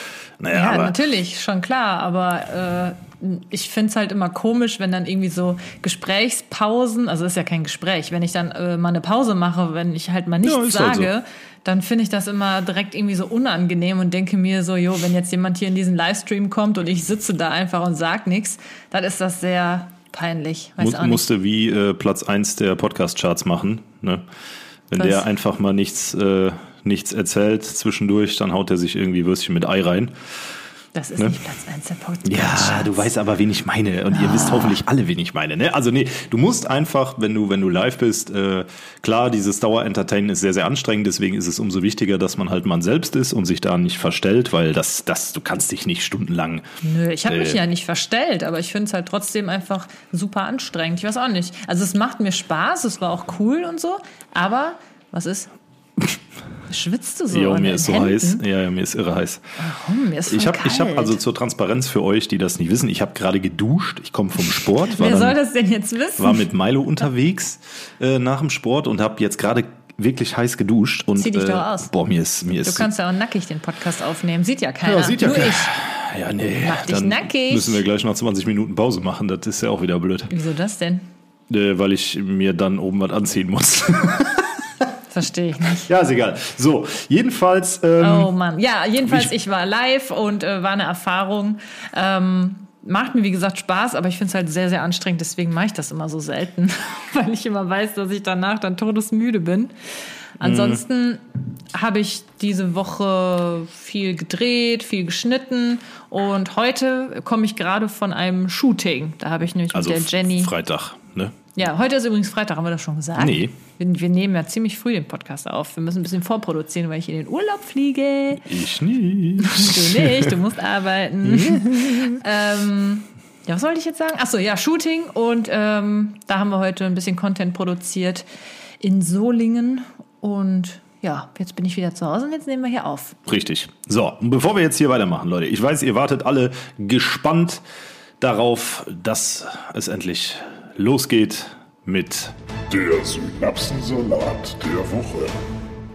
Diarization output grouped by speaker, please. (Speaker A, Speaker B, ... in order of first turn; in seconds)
Speaker A: 0.4-1.0, 10.4-11.1, 20.8-24.2, 24.9-30.1, 32.2-46.7, 47.2-47.6, 57.3-59.4, 60.3-65.4, 66.2-72.9, 74.8-80.3, 81.5-84.5, 85.8-88.3, 89.0-89.3, 100.4-100.8, 109.7-111.4, 113.2-113.5, 118.4-120.3, 121.2-122.2, 133.2-137.6, 138.2-142.3
Speaker B: 0.5-21.2, 24.9-25.2, 30.9-33.0, 34.1-34.8, 46.8-55.5, 56.7-58.4, 59.6-61.2, 64.8-66.4, 71.2-71.9, 72.6-75.7, 76.6-77.8, 80.3-81.1, 85.1-85.9, 88.0-99.7, 100.4-110.5, 111.5-118.5, 119.4-128.3, 128.8-133.2
Speaker C: 142.7-145.3